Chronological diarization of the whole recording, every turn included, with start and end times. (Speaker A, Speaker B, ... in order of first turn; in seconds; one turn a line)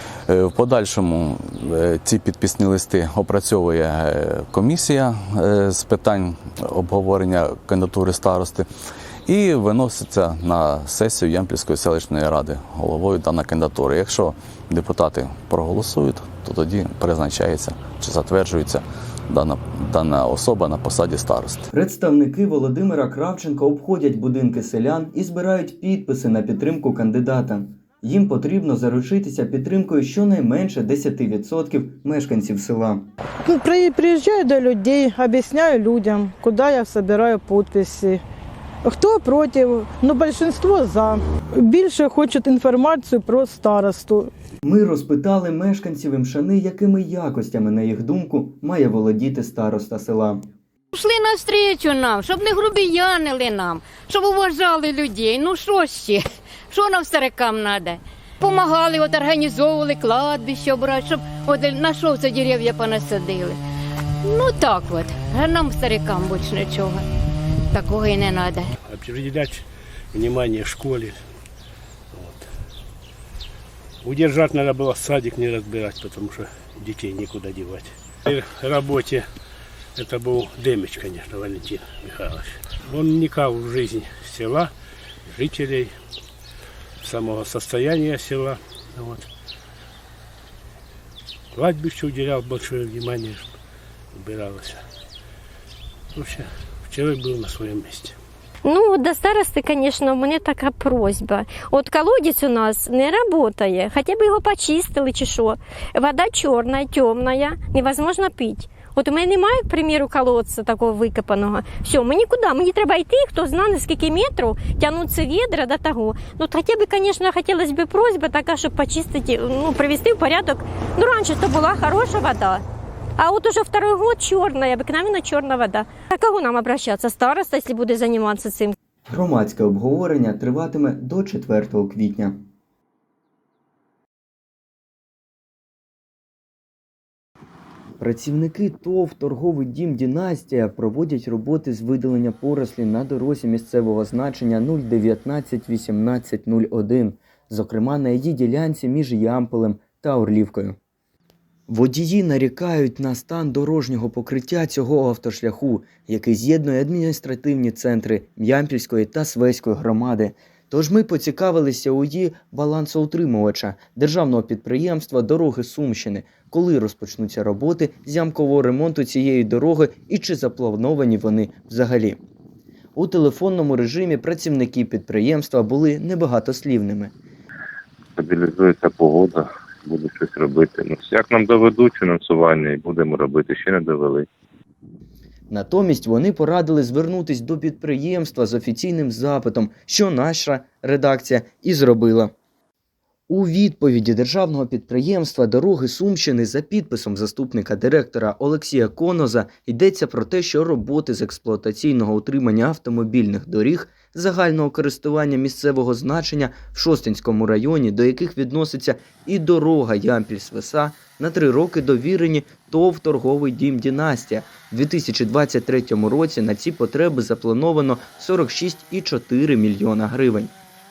Speaker A: 0.3-8.7
Speaker A: 9.3-21.7
Speaker B: 21.7-33.1
Speaker C: 33.5-38.2
Speaker C: 38.8-44.3
Speaker B: 44.6-50.5
Speaker D: 51.0-56.2
Speaker D: 56.8-63.5
Speaker D: 64.3-66.9
Speaker D: 67.9-68.2
Speaker E: 68.8-71.2
Speaker E: 72.1-72.5
Speaker E: 74.0-79.3
Speaker E: 80.0-84.7
Speaker E: 85.3-85.9
Speaker E: 87.0-89.3
Speaker E: 91.5-93.5
Speaker E: 94.1-94.8
Speaker E: 96.2-98.2
Speaker F: 98.7-122.6
Speaker F: 123.2-128.7
Speaker B: 129.1-132.4
Speaker B: 138.0-150.8
Speaker B: 151.7-172.2
Speaker B: 173.0-177.1
Speaker G: 178.2-184.3
Speaker B: 185.5-192.3
Speaker B: 193.3-220.5